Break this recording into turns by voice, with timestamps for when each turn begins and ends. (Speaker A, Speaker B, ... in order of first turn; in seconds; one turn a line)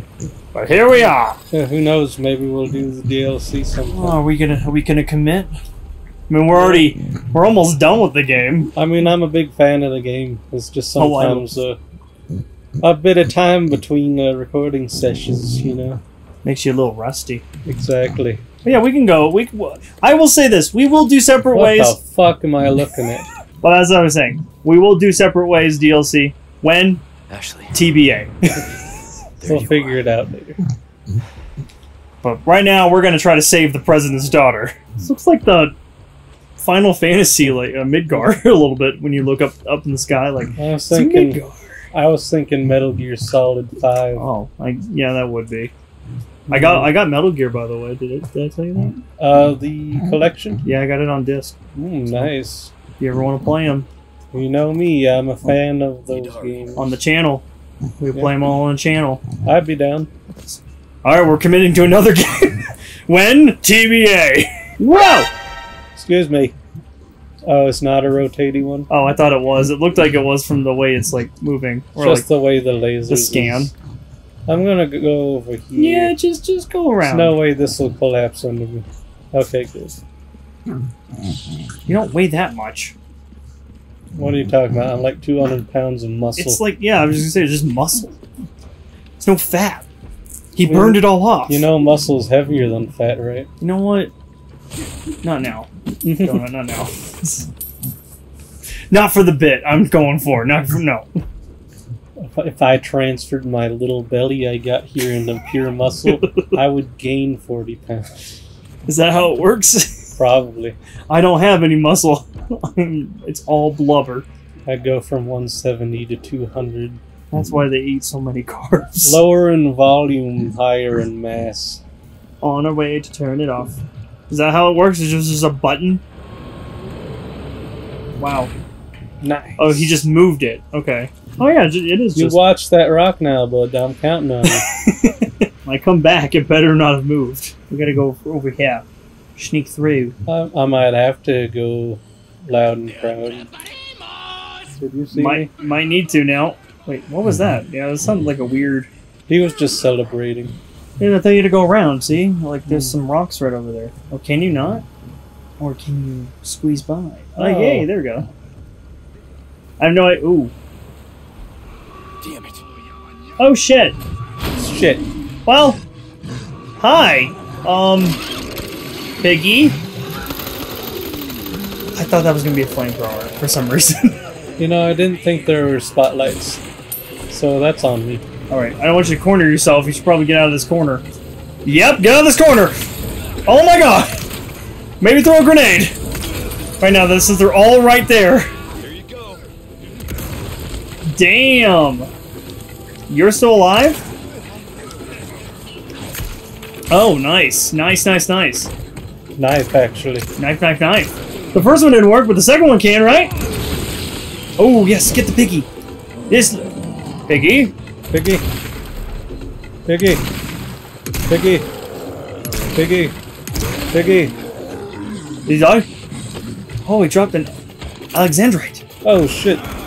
Speaker A: 0.5-1.4
Speaker B: 1.5-4.2
Speaker A: 3.9-5.5
Speaker A: 6.3-8.7
Speaker B: 6.5-6.9
Speaker B: 8.8-11.8
Speaker A: 11.0-11.5
Speaker B: 12.8-16.0
Speaker A: 16.4-17.4
Speaker B: 17.6-18.4
Speaker A: 18.6-22.0
Speaker B: 21.5-23.3
Speaker A: 23.6-27.0
Speaker C: 27.3-27.9
Speaker A: 27.7-28.6
Speaker C: 29.4-30.1
Speaker B: 29.4-30.6
Speaker A: 32.2-35.7
Speaker A: 36.6-41.9
Speaker B: 40.6-41.4
Speaker B: 41.9-44.3
Speaker A: 44.2-45.7
Speaker B: 46.5-47.0
Speaker A: 46.5-49.0
Speaker B: 49.2-50.6
Speaker A: 50.6-51.6
Speaker B: 51.8-52.7
Speaker A: 53.0-53.9
Speaker B: 54.3-57.0
Speaker C: 56.1-56.9
Speaker A: 56.8-57.5
Speaker A: 58.0-59.3
Speaker B: 59.4-60.1
Speaker A: 61.0-65.3
Speaker B: 66.0-66.5
Speaker B: 67.4-68.9
Speaker A: 68.9-72.3
Speaker B: 72.0-73.7
Speaker A: 73.1-73.7
Speaker B: 74.5-76.2
Speaker A: 75.8-77.4
Speaker B: 77.1-80.0
Speaker A: 81.9-83.0
Speaker B: 84.1-86.6
Speaker A: 86.4-88.2
Speaker A: 89.2-89.9
Speaker A: 90.5-91.7
Speaker B: 90.6-93.5
Speaker A: 93.6-94.1
Speaker A: 95.2-97.5
Speaker B: 96.0-96.5
Speaker A: 98.9-101.1
Speaker B: 102.2-108.3
Speaker A: 106.1-106.6
Speaker A: 108.9-110.2
Speaker B: 110.2-110.8
Speaker A: 111.1-114.3
Speaker B: 114.7-117.0
Speaker A: 117.3-119.2
Speaker B: 119.0-121.8
Speaker A: 122.4-126.0
Speaker A: 128.2-128.5
Speaker B: 129.2-130.0
Speaker A: 129.6-132.4
Speaker B: 132.2-134.7
Speaker A: 134.5-138.8
Speaker A: 139.4-140.2
Speaker B: 140.3-143.5
Speaker B: 144.7-145.5
Speaker A: 145.1-148.9
Speaker B: 149.3-150.6
Speaker A: 151.0-154.8
Speaker B: 152.7-153.0
Speaker A: 155.6-158.3
Speaker B: 157.4-157.9
Speaker A: 159.8-160.5
Speaker C: 162.2-162.7
Speaker A: 163.4-164.0
Speaker B: 164.6-165.1
Speaker A: 165.5-165.8
Speaker A: 166.8-168.2
Speaker A: 169.2-169.8
Speaker A: 172.0-174.2
Speaker B: 174.6-176.6
Speaker B: 177.3-178.2
Speaker A: 178.5-181.1
Speaker A: 181.7-182.8
Speaker A: 183.5-184.2
Speaker A: 185.0-186.0
Speaker A: 186.8-188.5
Speaker C: 188.8-189.5
Speaker A: 191.1-192.1
Speaker A: 193.1-194.1
Speaker A: 196.9-198.7
Speaker B: 199.4-200.3
Speaker A: 200.4-203.3
Speaker A: 204.6-205.7
Speaker A: 206.3-206.7
Speaker A: 207.3-207.7
Speaker B: 208.1-208.4
Speaker B: 209.9-210.2
Speaker B: 211.3-211.7
Speaker B: 212.7-213.2
Speaker B: 213.9-214.3
Speaker A: 215.5-215.9
Speaker A: 216.8-217.6
Speaker A: 218.1-218.8
Speaker B: 219.0-219.6